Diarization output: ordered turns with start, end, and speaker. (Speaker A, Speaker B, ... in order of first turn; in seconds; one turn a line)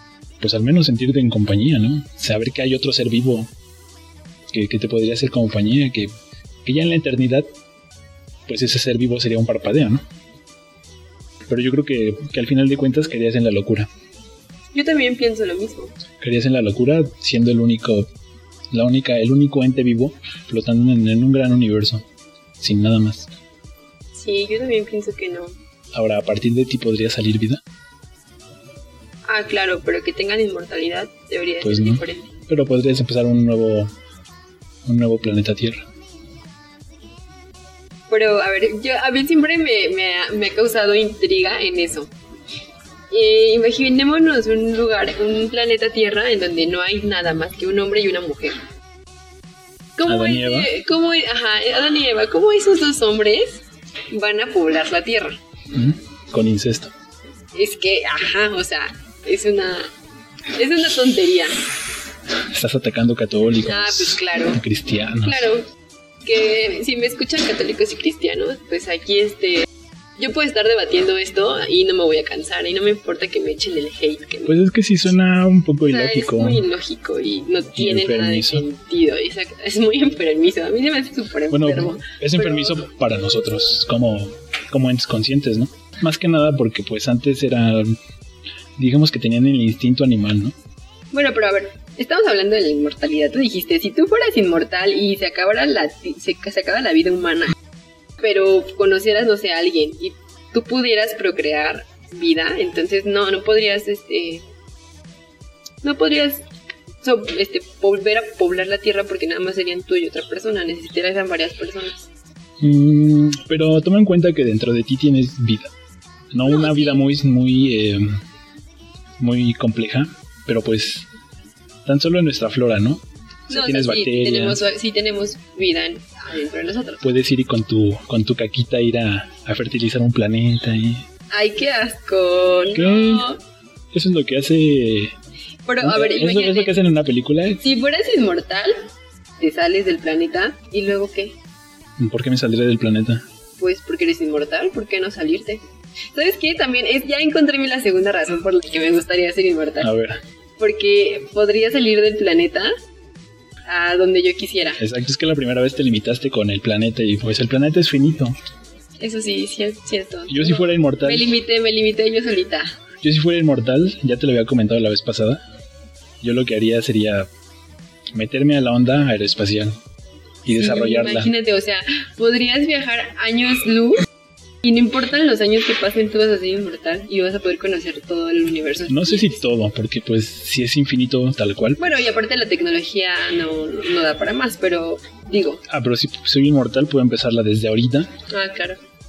Speaker A: 0.4-3.5
Speaker A: 4.5-6.1
Speaker A: 6.6-7.5
Speaker A: 8.5-10.0
Speaker A: 11.5-13.9
Speaker B: 14.7-15.9
Speaker A: 16.2-18.1
Speaker A: 18.7-22.0
Speaker A: 22.6-23.3
Speaker B: 24.1-25.5
Speaker A: 25.9-27.6
Speaker B: 29.3-32.3
Speaker A: 31.6-33.9
Speaker A: 34.8-35.8
Speaker B: 38.1-42.1
Speaker B: 43.1-48.6
Speaker B: 50.0-55.4
Speaker A: 50.0-50.7
Speaker A: 55.7-56.9
Speaker B: 57.5-59.9
Speaker B: 60.5-61.6
Speaker A: 62.4-65.5
Speaker B: 63.6-64.6
Speaker B: 65.2-65.7
Speaker B: 66.2-74.5
Speaker A: 74.5-76.6
Speaker B: 75.8-82.8
Speaker A: 77.8-78.7
Speaker A: 81.5-88.0
Speaker A: 88.8-90.5
Speaker B: 91.1-97.5
Speaker B: 98.2-104.4
Speaker B: 105.8-106.4
Speaker B: 107.0-112.1
Speaker A: 112.6-115.7
Speaker A: 116.3-118.2
Speaker B: 116.5-117.0
Speaker A: 119.2-121.1
Speaker A: 121.8-124.6
Speaker B: 123.5-127.0
Speaker A: 127.0-131.0
Speaker B: 131.3-133.4
Speaker A: 132.7-133.3
Speaker A: 133.9-135.1
Speaker B: 135.7-136.7
Speaker A: 135.8-137.6
Speaker B: 137.6-138.9
Speaker B: 139.4-141.3
Speaker A: 142.0-143.2
Speaker B: 143.6-145.6
Speaker B: 146.1-149.9
Speaker A: 149.8-150.2
Speaker B: 150.6-152.7
Speaker B: 153.7-154.8
Speaker A: 154.8-158.3
Speaker B: 159.0-162.7
Speaker A: 160.3-161.3
Speaker A: 163.0-165.4
Speaker A: 166.2-167.3
Speaker A: 168.1-169.8
Speaker A: 170.4-171.3
Speaker B: 170.5-174.0
Speaker B: 174.6-179.4
Speaker A: 178.9-182.0
Speaker B: 181.8-185.6
Speaker A: 185.7-188.1
Speaker B: 188.3-188.8